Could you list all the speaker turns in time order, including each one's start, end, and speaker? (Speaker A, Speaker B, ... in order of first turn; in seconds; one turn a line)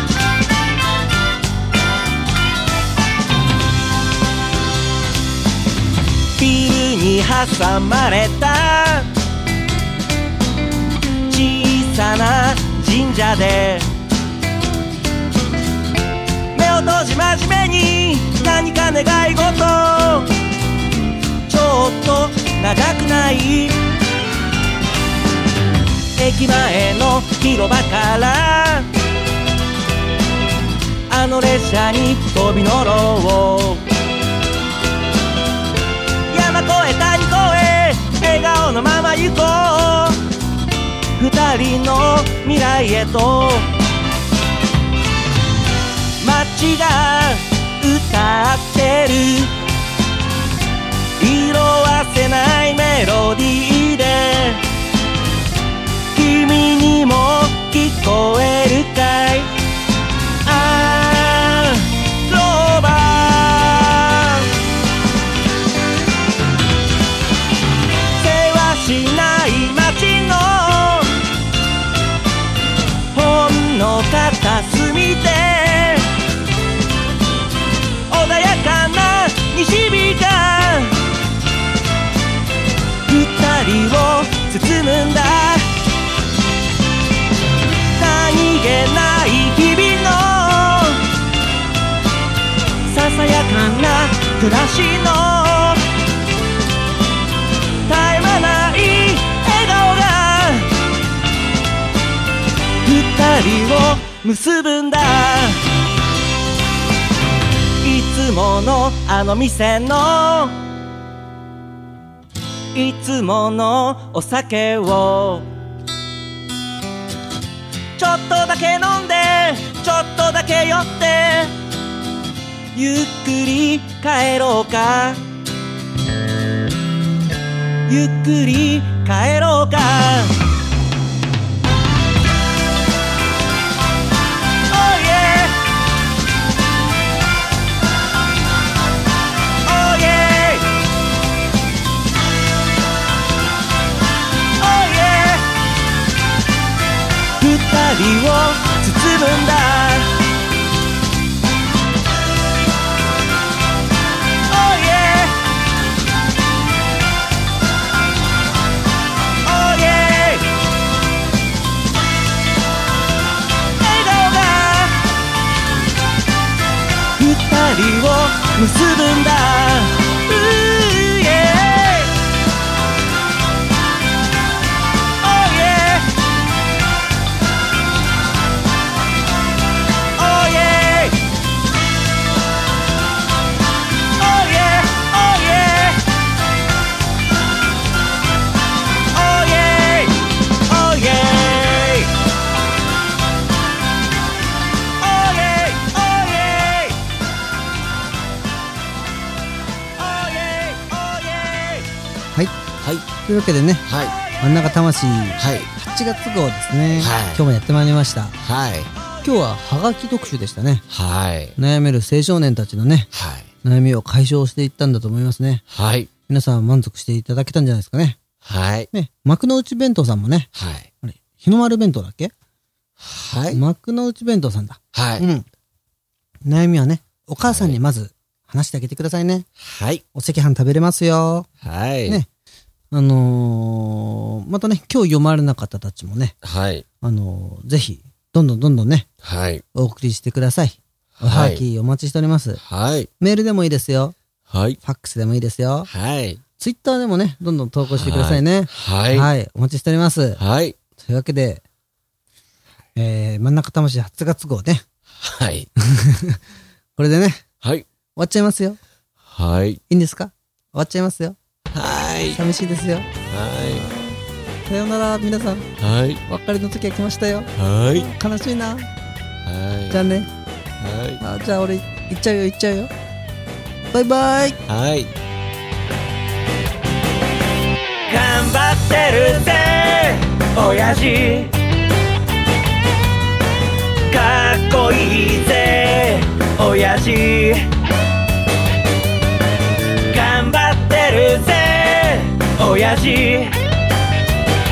Speaker A: 6.4-9.1
Speaker A: 11.3-13.9
Speaker A: 16.5-20.3
Speaker A: 21.5-23.8
Speaker A: 26.2-28.9
Speaker A: 31.1-33.9
Speaker A: 36.3-40.2
Speaker A: 41.2-43.7
Speaker A: 46.2-49.5
Speaker A: 51.2-54.6
Speaker A: 56.1-59.5
Speaker A: 60.4-64.5
Speaker A: 68.2-71.2
Speaker A: 73.1-76.1
Speaker A: 78.1-81.0
Speaker A: 83.1-85.7
Speaker A: 88.0-91.1
Speaker A: 92.9-95.8
Speaker A: 97.9-100.7
Speaker A: 102.8-105.6
Speaker A: 107.8-110.6
Speaker A: 112.7-115.5
Speaker A: 118.0-121.5
Speaker A: 122.7-125.2
Speaker A: 127.9-130.3
Speaker A: 134.7-135.6
Speaker A: 139.7-140.7
Speaker A: 144.6-145.5
Speaker A: 147.4-150.2
Speaker A: 154.5-155.4
Speaker A: 159.4-160.5
Speaker A: 163.8-165.0
Speaker A: 167.2-172.1
Speaker A: 175.2-176.1
Speaker A: 180.2-181.2
Speaker A: 184.2-186.0
Speaker A: 189.1-192.2
Speaker A: 195.0-197.0
Speaker A: 200.0-201.9
Speaker B: 202.8-203.1
Speaker C: 203.2-203.9
Speaker B: 203.8-204.2
Speaker C: 204.4-208.4
Speaker B: 205.4-205.7
Speaker B: 207.0-207.4
Speaker B: 208.4-208.9
Speaker C: 209.2-210.8
Speaker B: 210.9-211.6
Speaker C: 211.6-213.1
Speaker B: 213.1-213.5
Speaker C: 213.6-215.6
Speaker B: 215.7-216.1
Speaker C: 216.3-218.2
Speaker B: 218.4-218.9
Speaker C: 218.9-220.5
Speaker B: 220.6-220.9
Speaker C: 221.0-222.3
Speaker B: 223.0-223.6
Speaker C: 223.5-225.5
Speaker B: 224.9-225.3
Speaker C: 226.4-229.5
Speaker B: 227.4-227.8
Speaker B: 229.6-230.0
Speaker C: 230.1-231.5
Speaker B: 231.6-232.2
Speaker C: 232.9-236.3
Speaker B: 236.4-236.8
Speaker C: 237.0-239.1
Speaker B: 239.2-239.6
Speaker C: 239.7-242.6
Speaker B: 241.2-241.6
Speaker B: 242.6-243.1
Speaker C: 243.2-244.2
Speaker B: 244.5-244.8
Speaker C: 244.8-245.9
Speaker B: 245.9-246.4
Speaker C: 246.6-250.4
Speaker B: 247.9-249.3
Speaker B: 250.4-250.8
Speaker C: 251.0-251.6
Speaker C: 253.0-254.8
Speaker B: 255.2-255.7
Speaker C: 255.8-256.4
Speaker C: 257.0-257.4
Speaker C: 258.2-258.8
Speaker B: 259.3-259.8
Speaker C: 259.9-261.4
Speaker B: 261.7-262.4
Speaker C: 262.3-263.1
Speaker B: 263.3-263.9
Speaker C: 264.7-265.7
Speaker B: 265.8-266.2
Speaker C: 266.3-268.9
Speaker B: 267.6-268.1
Speaker B: 269.4-270.1
Speaker C: 269.9-270.3
Speaker B: 270.8-271.2
Speaker C: 271.2-272.9
Speaker C: 273.9-274.6
Speaker B: 274.7-275.1
Speaker A: 278.1-281.6
Speaker A: 284.1-287.7
Speaker A: 290.1-293.6